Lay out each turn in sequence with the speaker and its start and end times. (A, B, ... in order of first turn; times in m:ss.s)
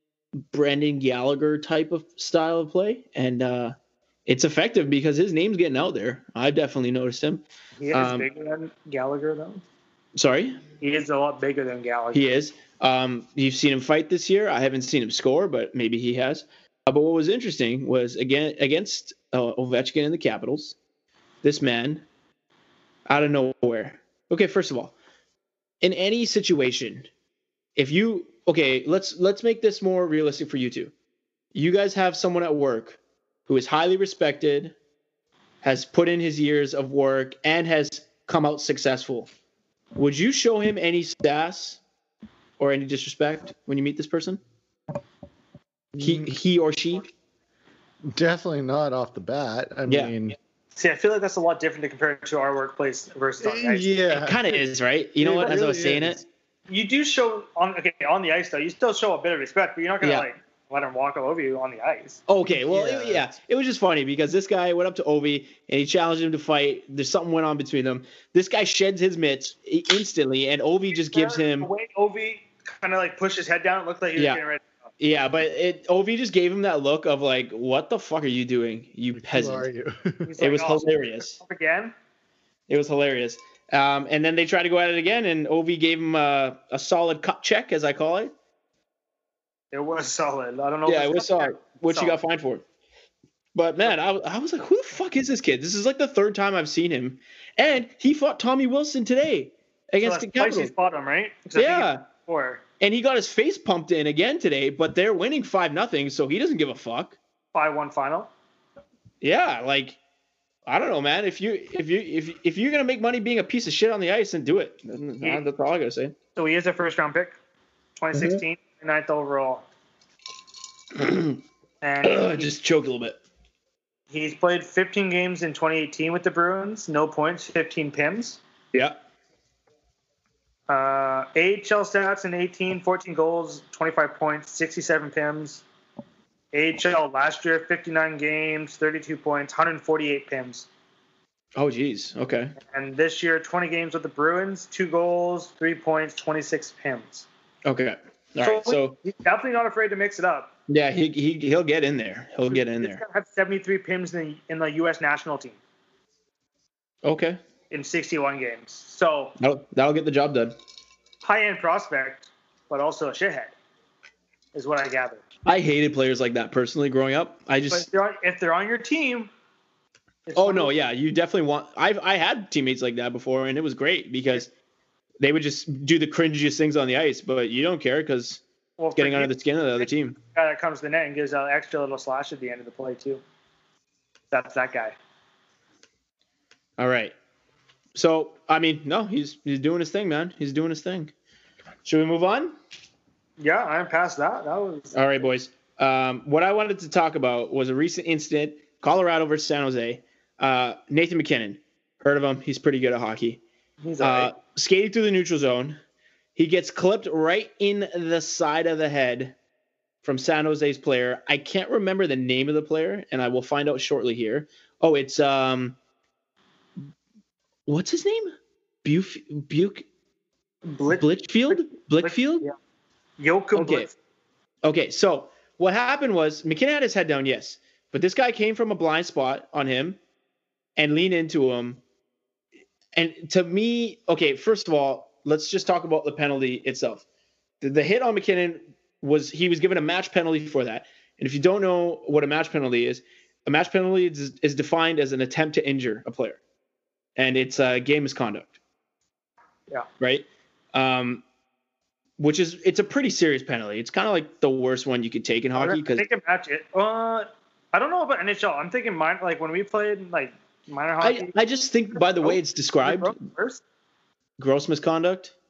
0:00.5-0:03.7 A
0:04.3-0:08.3 A
0:07.8-0:09.6 B
0:10.1-0:10.6 A
0:10.8-0:12.3 B
0:12.1-0:20.8 A
0:21.4-0:22.0 A
0:23.1-0:25.0 A
0:25.8-0:27.1 A
0:27.8-0:30.9 A
0:31.5-0:34.7 A
0:35.6-0:39.3 A
0:39.9-0:41.8 A
0:42.6-0:44.4 A
0:46.0-0:46.3 C
0:46.0-0:47.1 A
0:48.1-0:50.4 C
0:49.9-0:50.1 A
0:50.7-0:54.0 B
0:53.4-0:54.6 C
0:54.1-0:56.2 A
0:55.2-0:56.2 C
0:56.7-1:02.2 B
1:00.0-1:00.3 A
1:02.3-1:11.7 A
1:02.4-1:03.2 C
1:10.9-1:14.6 B
1:15.0-1:19.7 A
1:19.2-1:20.3 C
1:20.2-1:21.9 B
1:20.4-1:21.4 A
1:22.7-1:28.3 A
1:29.7-1:32.2 B
1:30.8-1:32.6 A
1:33.5-1:40.7 A
1:40.0-1:42.6 B
1:41.5-1:42.0 A
1:42.8-1:47.2 A
1:47.5-1:48.3 B
1:49.2-1:50.0 A
1:50.6-1:56.1 A
1:56.3-1:57.4 B
1:58.0-1:59.6 B
1:58.1-1:58.4 C
2:00.9-2:01.4 A
2:01.8-2:02.5 B
2:02.0-2:03.2 A
2:04.1-2:08.4 B
2:08.7-2:09.0 A
2:10.7-2:15.6 B
2:16.5-2:20.7 B
2:21.5-2:22.5 A
2:22.6-2:27.3 B
2:27.6-2:29.0 A
2:28.4-2:30.5 B
2:30.7-2:33.0 A
2:32.5-2:35.6 B
2:37.0-2:37.4 A
2:37.7-2:39.3 B
2:39.4-2:40.6 A
2:41.2-2:43.5 B
2:44.5-2:45.2 B
2:45.4-2:47.9 A
2:47.7-2:49.3 B
2:50.3-2:50.7 B
2:50.4-2:54.5 A
2:55.2-2:58.4 A
2:58.8-3:03.2 B
2:59.0-3:00.2 A
3:04.3-3:05.0 B
3:06.8-3:07.1 A
3:07.9-3:11.1 A
3:11.8-3:12.6 A
3:13.4-3:15.0 B
3:14.9-3:23.4 A
3:23.8-3:24.3 B
3:24.0-3:25.8 A
3:26.4-3:29.4 A
3:30.0-3:35.8 A
3:37.6-3:38.3 A
3:38.8-3:39.8 A
3:40.6-3:42.5 B
3:40.9-3:42.5 A
3:43.2-3:43.9 B
3:43.5-3:43.9 A
3:44.6-3:50.0 A
3:50.8-3:51.8 A
3:52.9-3:57.0 A
3:57.6-4:06.4 A
4:07.2-4:08.6 A
4:10.0-4:11.2 A
4:12.2-4:16.0 A
4:15.6-4:21.3 B
4:21.0-4:23.2 A
4:21.9-4:23.6 B
4:24.4-4:25.3 A